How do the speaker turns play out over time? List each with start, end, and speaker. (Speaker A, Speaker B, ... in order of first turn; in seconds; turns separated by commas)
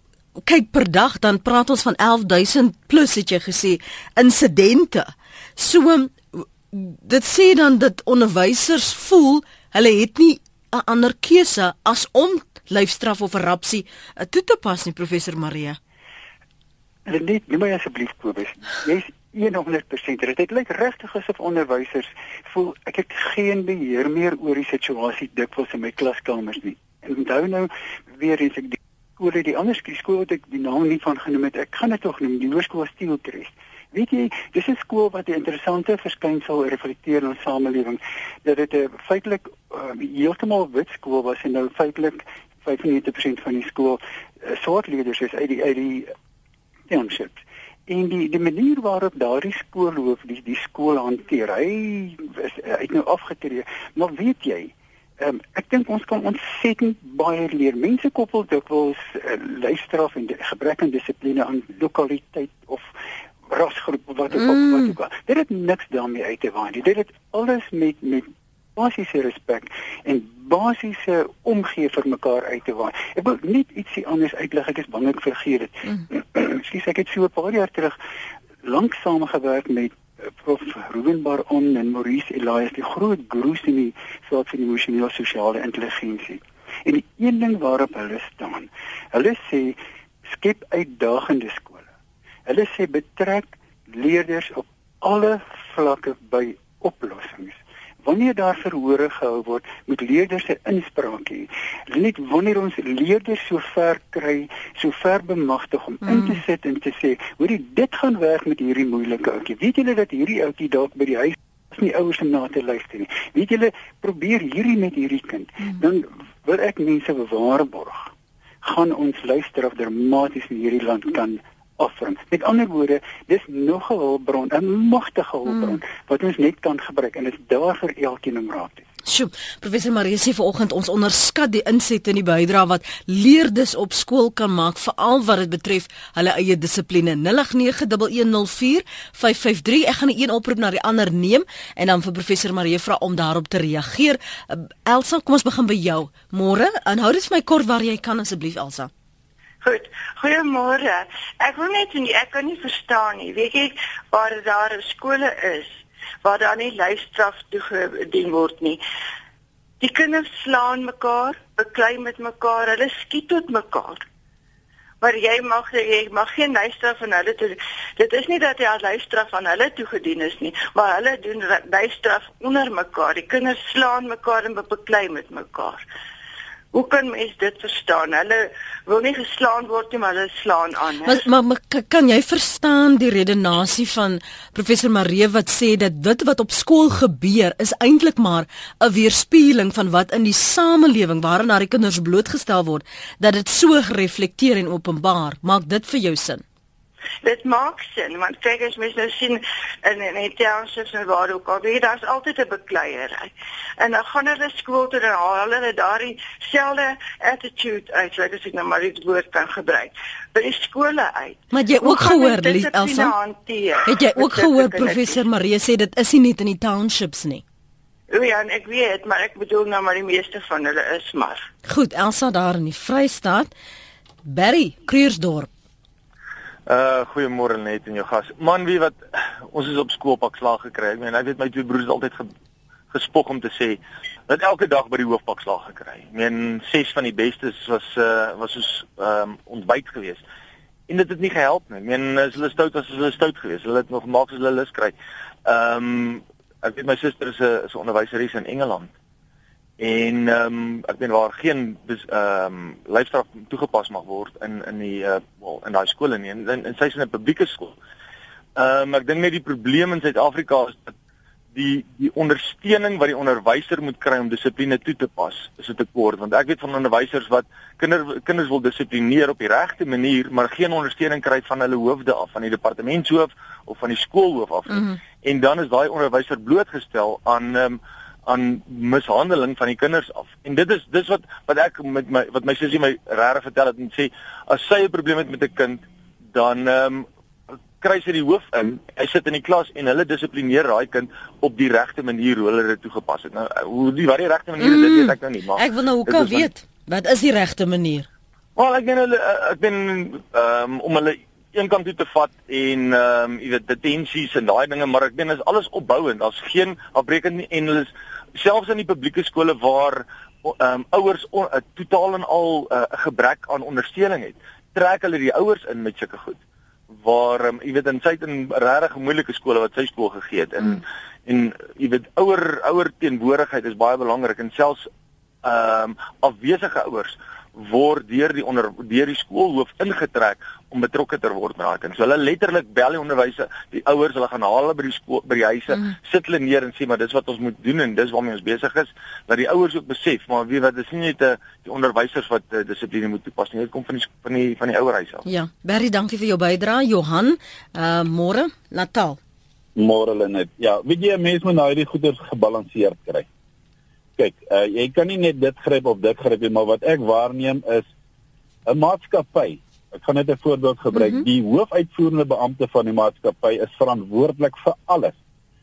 Speaker A: 0.4-15.8, Speaker B: 17.1-46.1, Speaker B: 46.9-62.9, Speaker B: 63.5-78.0, Speaker A: 64.4-64.9, Speaker B: 78.6-89.8, Speaker B: 90.3-91.9, Speaker B: 92.5-118.1, Speaker B: 118.6-128.8, Speaker A: 129.1-148.9, Speaker C: 149.6-158.8, Speaker C: 159.8-164.0, Speaker C: 165.0-175.8, Speaker C: 176.7-181.2, Speaker A: 181.0-196.4, Speaker C: 197.2-215.2, Speaker A: 211.5-213.1, Speaker A: 213.8-217.4, Speaker C: 218.1-221.5, Speaker A: 221.7-223.5, Speaker A: 224.2-225.5, Speaker D: 226.7-232.3, Speaker D: 232.9-240.2, Speaker D: 240.9-248.9, Speaker D: 249.8-257.8, Speaker D: 258.6-260.9, Speaker D: 261.5-287.1, Speaker A: 274.7-275.0, Speaker D: 287.8-296.4, Speaker A: 294.6-298.1, Speaker D: 298.6-316.4, Speaker D: 317.0-324.9, Speaker D: 325.4-345.2, Speaker A: 345.2-349.2, Speaker E: 349.8-353.2, Speaker E: 354.2-357.9, Speaker E: 358.6-365.1, Speaker A: 360.9-361.2